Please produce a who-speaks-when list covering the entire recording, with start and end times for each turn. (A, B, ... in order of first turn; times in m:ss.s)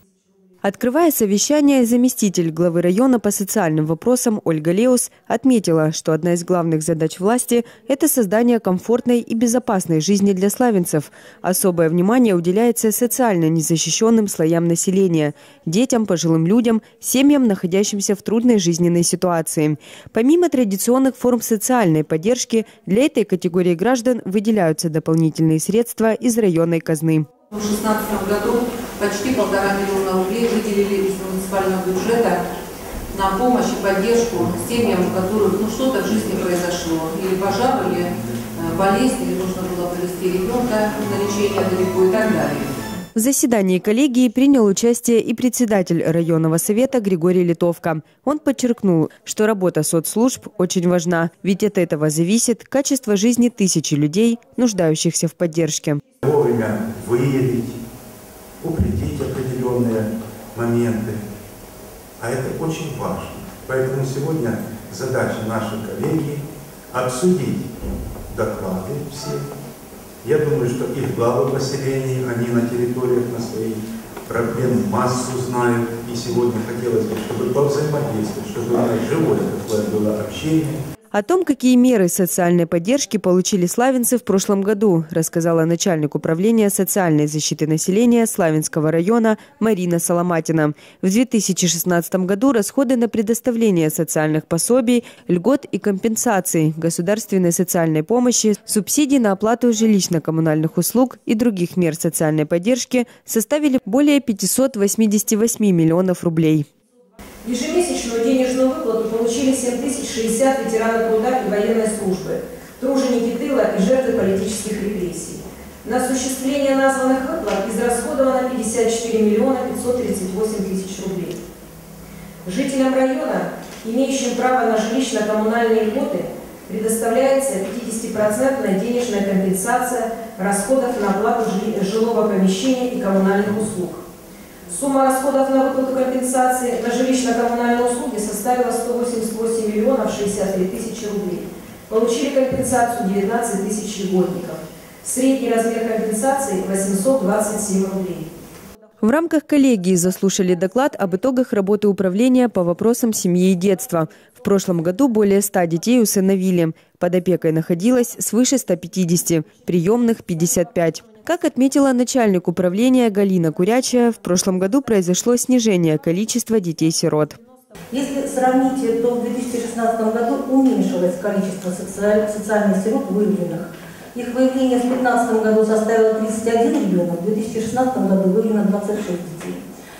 0:00.6-0:27.3 A
0:27.5-0:32.4 B
0:33.1-0:42.7 B
0:43.2-0:56.0 A
0:56.2-0:57.8 C
0:58.6-1:01.2 C
1:02.2-1:07.7 C
1:08.3-1:09.5 C
1:10.2-1:20.8 C
1:21.1-1:46.7 A
1:47.4-2:01.4 D
2:02.4-2:14.0 D
2:14.7-2:28.3 D
2:29.0-2:47.4 A
2:47.9-2:59.6 E